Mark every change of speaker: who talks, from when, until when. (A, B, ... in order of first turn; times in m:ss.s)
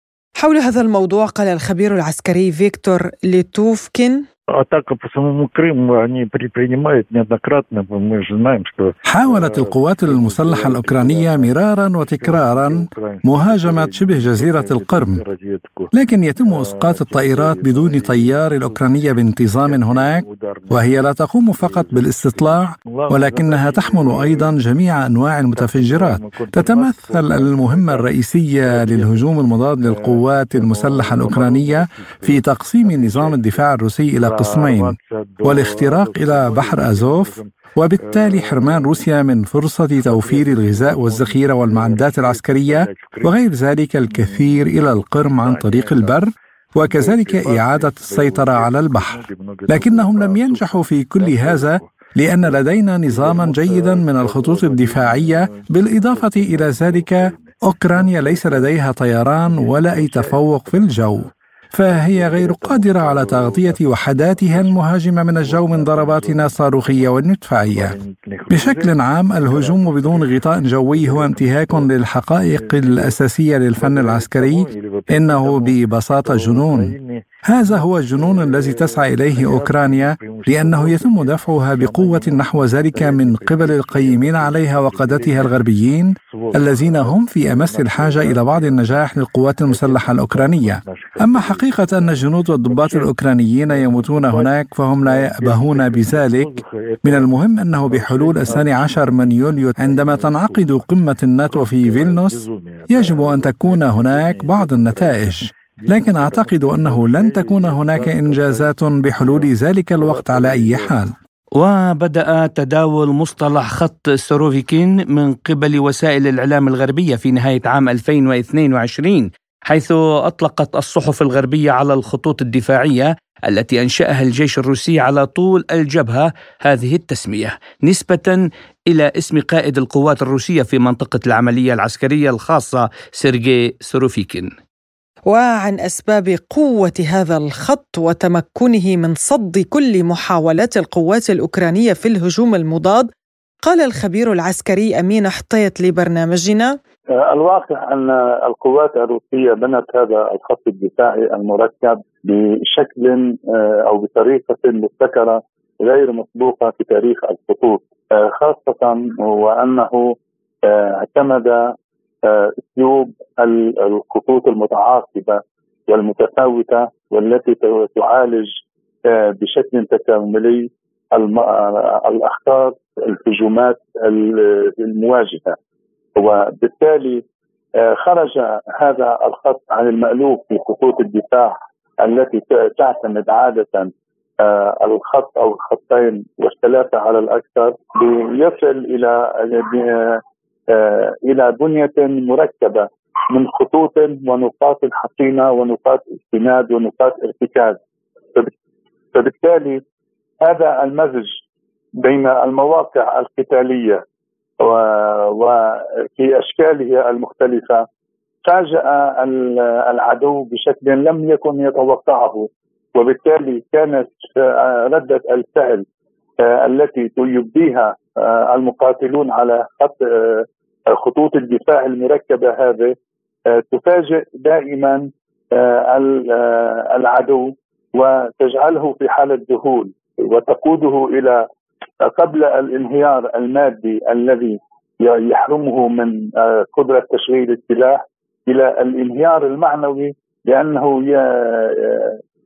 0:00.4-0:04.2 A
0:04.6-0:15.9 B
0:09.1-0:15.2 C
0:15.9-1:08.0 C
0:16.4-0:21.0 B
0:21.5-0:24.6 B
0:25.5-0:29.3 B
0:29.8-0:33.7 B
0:34.2-0:39.1 B
0:40.0-0:43.4 B
0:44.0-0:46.2 B
0:46.8-1:01.3 B
1:01.8-1:04.8 B
1:05.4-1:11.9 B
1:08.5-1:16.9 C
1:12.5-1:13.2 B
1:13.8-1:25.6 B
1:17.4-1:51.2 C
1:26.2-1:40.9 B
1:41.4-1:51.0 B
1:51.6-2:14.5 D
2:15.3-2:23.1 A
2:23.6-2:26.8 A
2:27.2-2:55.6 E
2:56.2-2:57.2 E
2:57.8-3:17.8 E
3:19.1-3:19.8 E
3:20.4-3:21.4 E
3:22.0-3:24.0 E
3:24.6-3:27.9 E
3:28.4-3:35.8 E
3:36.4-3:43.0 E
3:43.5-3:51.5 E
3:52.0-4:02.2 E